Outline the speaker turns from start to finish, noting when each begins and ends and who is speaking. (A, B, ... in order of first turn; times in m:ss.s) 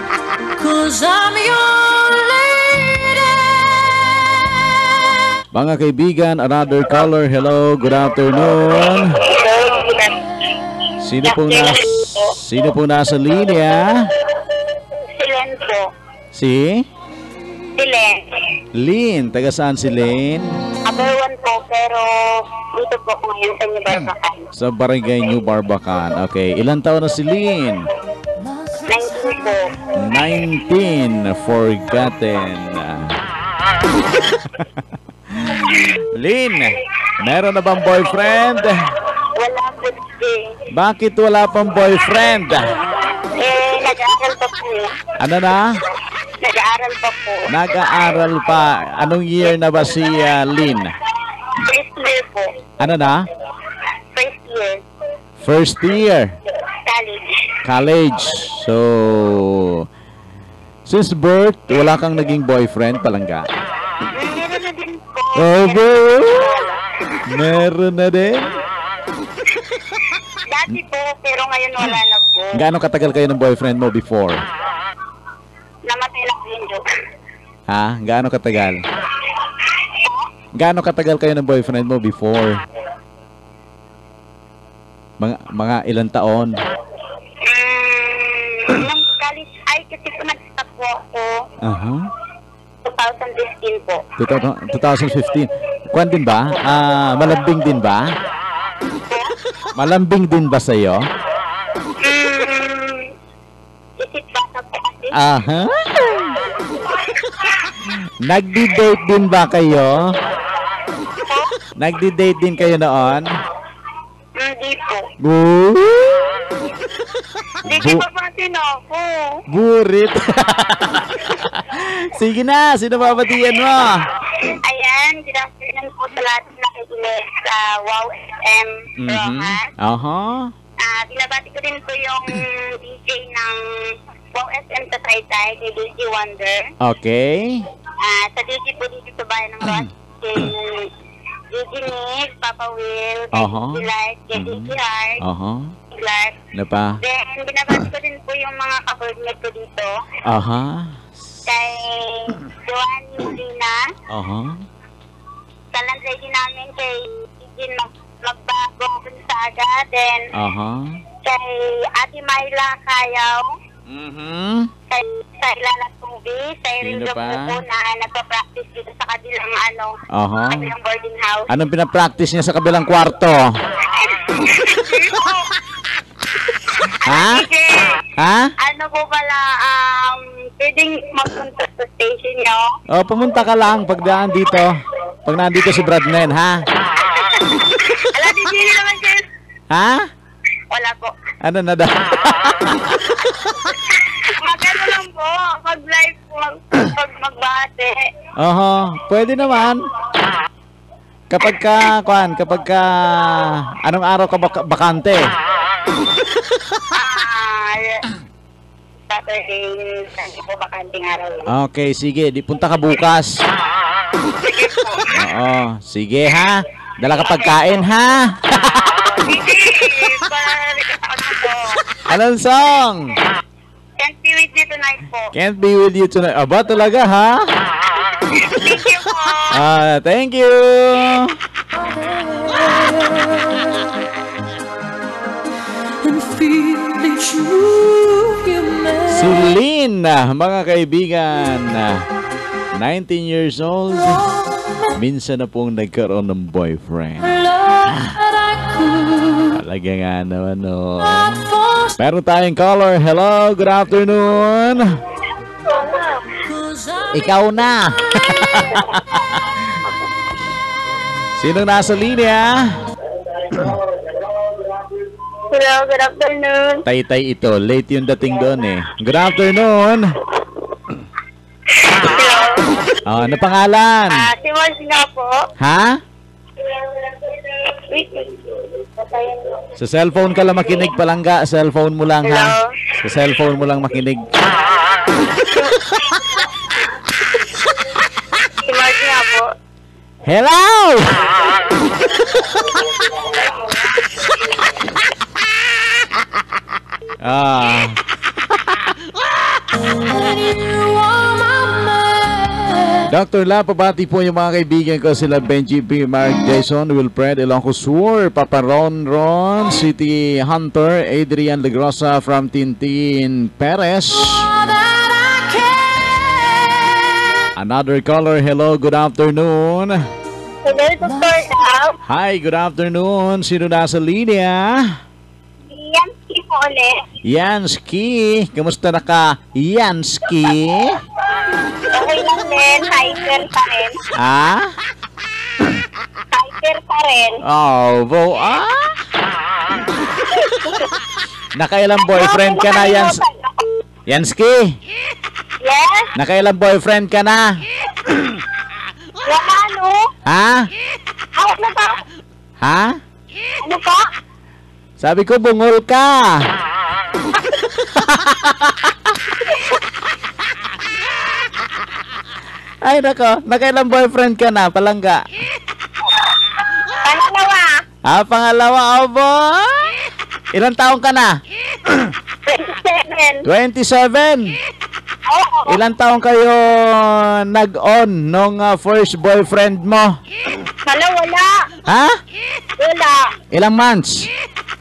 0:00.6-0:03.1 A
0:05.5-0:09.2 B
0:09.2-0:10.1 C
0:11.0-0:14.1 B
0:11.2-0:12.3 C
0:15.2-0:15.8 C
0:16.3-0:16.8 B
0:17.8-0:18.2 C
0:18.8-0:20.5 B
0:20.9-0:22.0 C
0:22.7-0:24.4 C
0:24.5-0:27.8 B
0:28.4-0:29.3 A
0:28.9-0:29.7 C
0:30.0-0:33.1 B
0:35.3-0:38.8 B
0:39.4-0:40.5 C
0:40.7-0:42.7 B
0:43.4-0:44.9 C
0:45.2-0:45.8 B
0:46.4-0:47.5 C
0:47.5-0:51.0 B
0:51.6-0:52.5 C
0:52.8-0:53.3 B
0:54.2-0:54.8 C
0:55.4-0:56.3 B
0:56.9-0:57.3 C
0:57.6-0:59.9 B
1:00.9-1:03.5 B
1:04.1-1:06.8 C
1:05.4-1:06.5 B
1:07.3-1:08.5 B
1:10.5-1:12.7 C
1:12.5-1:14.4 B
1:15.9-1:16.8 C
1:17.7-1:18.8 B
1:20.6-1:22.6 B
1:25.2-1:26.6 B
1:27.5-1:31.4 C
1:31.6-1:32.1 B
1:32.8-1:34.0 C
1:34.2-1:38.1 B
1:39.8-1:41.0 B
1:42.0-1:43.1 C
1:44.0-1:45.1 C
1:45.1-1:45.7 B
1:48.2-1:50.1 B
1:51.8-1:53.3 B
1:54.4-1:55.1 C
1:55.2-1:56.2 B
1:57.7-1:59.4 C
1:57.7-1:58.1 B
1:59.5-2:04.0 B
2:04.4-2:09.7 C
2:09.0-2:10.5 B
2:10.8-2:13.5 C
2:14.4-2:16.7 C
2:16.8-2:17.6 B
2:18.0-2:20.9 C
2:19.6-2:19.9 B
2:21.5-2:25.2 C
2:23.3-2:23.8 B
2:24.3-2:25.7 B
2:25.9-2:26.4 C
2:26.5-2:27.0 B
2:27.0-2:30.0 C
2:30.2-2:31.0 B
2:31.5-2:33.9 C
2:34.1-2:34.6 B
2:35.7-2:40.3 C
2:40.3-2:40.8 B
2:41.2-2:43.4 C
2:43.9-2:44.7 B
2:44.9-2:50.0 C
2:46.8-2:47.6 B
2:50.1-2:50.7 B
2:50.5-2:51.5 C
2:51.5-2:53.5 B
2:54.0-2:55.4 C
2:57.0-2:57.7 C
2:57.1-2:57.4 B
2:58.2-2:58.5 B
2:58.6-3:02.7 C
3:02.9-3:06.6 B
3:08.2-3:09.2 C
3:09.7-3:10.1 B
3:10.7-3:11.1 C
3:11.4-3:12.9 B
3:14.4-3:18.0 C
3:18.4-3:19.8 B
3:21.3-3:25.2 B
3:26.9-3:28.0 C
3:29.1-3:31.4 C
3:31.5-3:33.3 B
3:34.4-3:35.1 C
3:35.1-3:38.8 B
3:37.3-3:37.5 C
3:38.9-3:41.8 C
3:42.1-3:43.1 B
3:44.0-3:45.3 C
3:45.3-3:47.4 B
3:48.4-3:49.5 C
3:49.5-3:51.4 B
3:51.7-3:53.8 A
3:56.0-3:59.5 A
3:59.1-4:02.0 B
4:02.8-4:04.2 B
4:04.0-4:04.9 A
4:05.0-4:07.3 B
4:07.2-4:09.6 A
4:09.6-4:11.4 B
4:11.1-4:12.0 A
4:12.0-4:14.8 B
4:15.7-4:16.2 C
4:16.4-4:17.4 A
4:17.1-4:19.4 B
4:21.4-4:22.7 B
4:25.5-4:26.8 C
4:26.9-4:30.1 B
4:31.8-4:32.6 C
4:33.1-4:34.2 B
4:34.1-4:35.3 C
4:35.6-4:36.0 B
4:37.9-4:38.4 C
4:39.0-4:39.4 C
4:39.8-4:44.3 B
4:42.2-4:42.7 C
4:45.4-4:45.7 C
4:48.6-4:49.5 C
4:50.3-4:51.1 B
4:57.2-4:58.0 B
5:00.1-5:03.0 A
5:03.1-5:14.5 B
5:14.4-5:16.8 A
5:17.6-5:20.0 B
5:20.6-5:21.9 C
5:22.1-5:24.8 B
5:25.7-5:26.9 C
5:27.3-5:31.0 B
5:31.9-5:34.0 C
5:32.0-5:33.2 A
5:34.2-5:34.7 B
5:36.3-5:37.4 C
5:37.4-5:38.8 B
5:40.3-5:40.7 C
5:41.6-5:43.2 B
5:42.0-5:43.6 C
5:44.1-5:44.6 B
5:45.6-5:46.1 C
5:46.2-5:47.4 B
5:49.2-5:50.0 C
5:50.3-5:50.7 B
5:51.4-5:52.0 C
5:52.6-5:52.9 B
5:53.6-5:54.0 C
5:55.0-5:56.2 B
5:58.0-5:58.7 B
6:02.9-6:05.2 B
6:07.0-6:07.7 C
6:08.1-6:09.9 B
6:10.6-6:11.4 B
6:12.4-6:13.4 C
6:13.4-6:14.5 B
6:15.3-6:15.8 C
6:15.7-6:20.2 B
6:20.8-6:21.5 C
6:21.9-6:22.2 B
6:22.8-6:23.2 C
6:23.5-6:24.3 B